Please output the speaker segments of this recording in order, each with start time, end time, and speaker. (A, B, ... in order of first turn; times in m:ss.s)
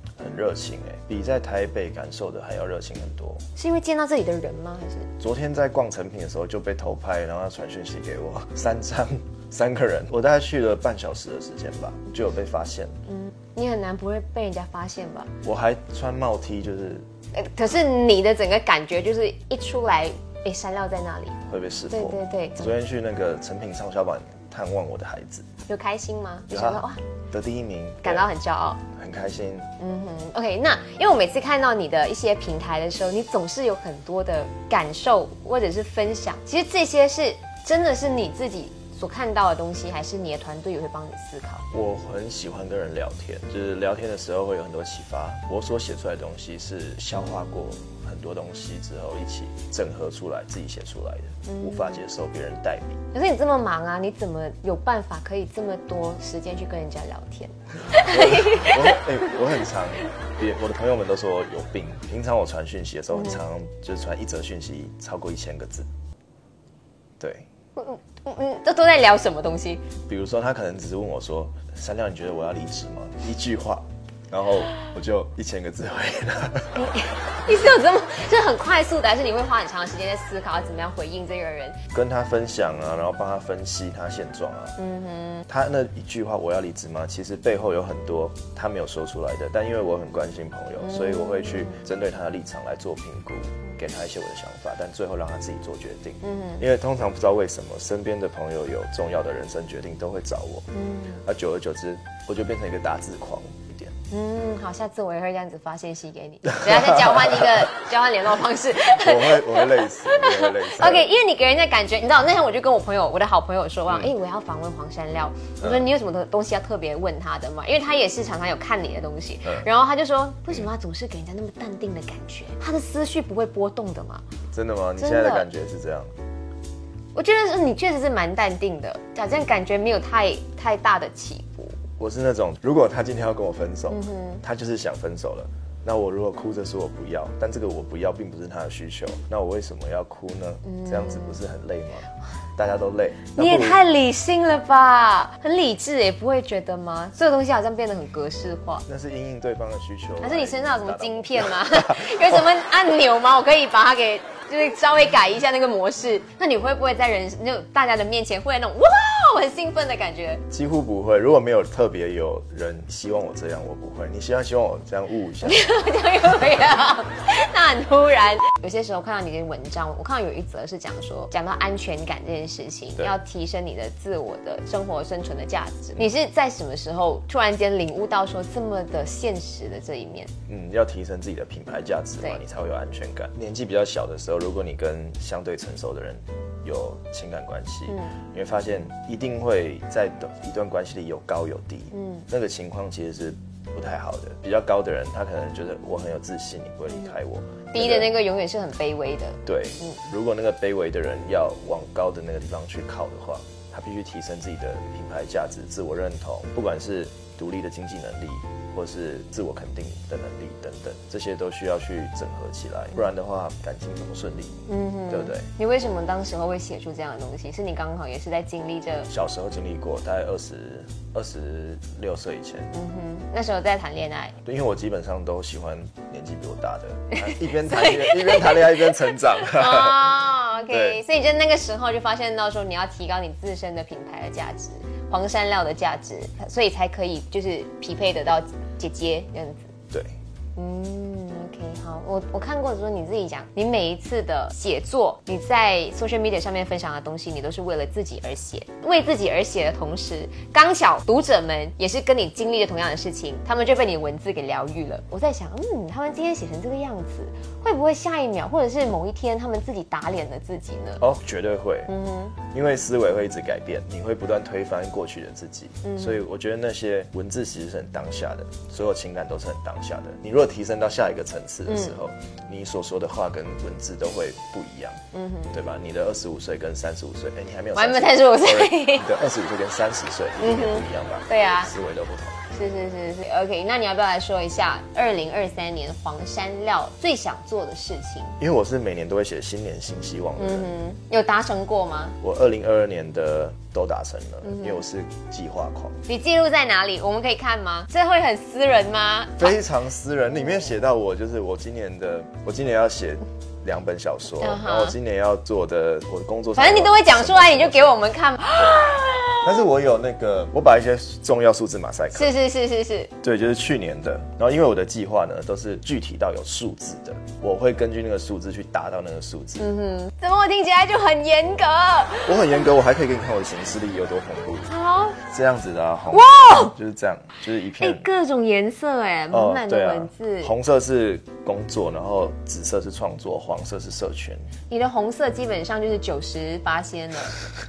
0:00.2-0:03.4 A
0:03.6-0:05.1 B
0:05.2-0:13.0 A
0:13.1-0:15.3 B
0:15.4-0:17.0 A
0:17.3-0:21.4 B
0:21.5-0:25.4 A
0:21.9-0:22.7 B
0:25.6-0:27.0 B
0:26.5-0:28.3 A
0:28.0-0:28.8 B
0:29.0-0:29.7 A
0:29.8-0:41.6 B
0:41.7-0:53.0 A
0:51.4-0:52.0 B
0:53.1-0:59.3 B
0:57.9-1:05.9 A
1:03.1-1:03.4 B
1:07.2-1:07.4 A
1:07.8-1:09.8 B
1:10.1-1:16.9 A
1:16.7-1:21.8 B
1:21.9-1:24.8 A
1:24.8-1:25.4 B
1:25.5-1:40.7 A
1:30.8-1:31.8 B
1:36.2-1:36.6 B
1:40.7-1:41.2 B
1:41.2-1:44.0 A
1:44.1-2:04.2 B
1:46.5-1:47.7 A
1:48.9-1:51.1 A
1:53.9-1:54.1 A
2:04.5-2:06.1 A
2:05.0-2:05.4 B
2:07.1-2:11.8 B
2:12.0-2:23.8 A
2:13.9-2:14.4 B
2:20.6-2:21.4 B
2:23.4-2:28.8 B
2:28.9-2:32.5 A
2:30.2-2:40.4 B
2:40.5-2:45.7 A
2:45.4-3:00.3 B
3:00.5-3:18.1 A
3:07.9-3:08.1 B
3:11.9-3:12.2 B
3:17.7-3:20.0 B
3:19.4-3:35.5 A
3:34.7-3:39.1 B
3:39.1-3:42.7 A
3:42.7-3:44.4 B
3:44.4-3:50.2 A
3:47.2-3:59.7 B
3:50.7-3:51.0 A
3:59.9-4:00.2 A
4:00.6-4:21.0 B
4:21.0-4:21.9 A
4:21.9-4:22.3 B
4:22.5-4:35.0 A
4:25.8-4:26.2 B
4:31.7-4:32.0 B
4:35.1-4:35.5 B
4:35.5-4:42.4 A
4:37.7-4:39.1 B
4:40.4-4:41.7 B
4:42.5-4:48.4 B
4:48.4-4:50.7 A
4:50.4-4:52.2 B
4:52.2-4:56.0 A
4:54.4-4:54.8 B
4:56.1-4:59.5 B
4:59.4-5:08.0 A
5:04.4-5:05.0 B
5:06.6-5:09.5 B
5:08.6-5:12.3 A
5:12.1-5:13.1 B
5:13.2-5:19.7 A
5:19.6-5:22.6 B
5:22.2-5:28.1 A
5:24.7-5:25.2 B
5:26.1-5:26.7 B
5:27.8-5:30.5 B
5:29.3-5:34.5 A
5:34.7-5:37.4 B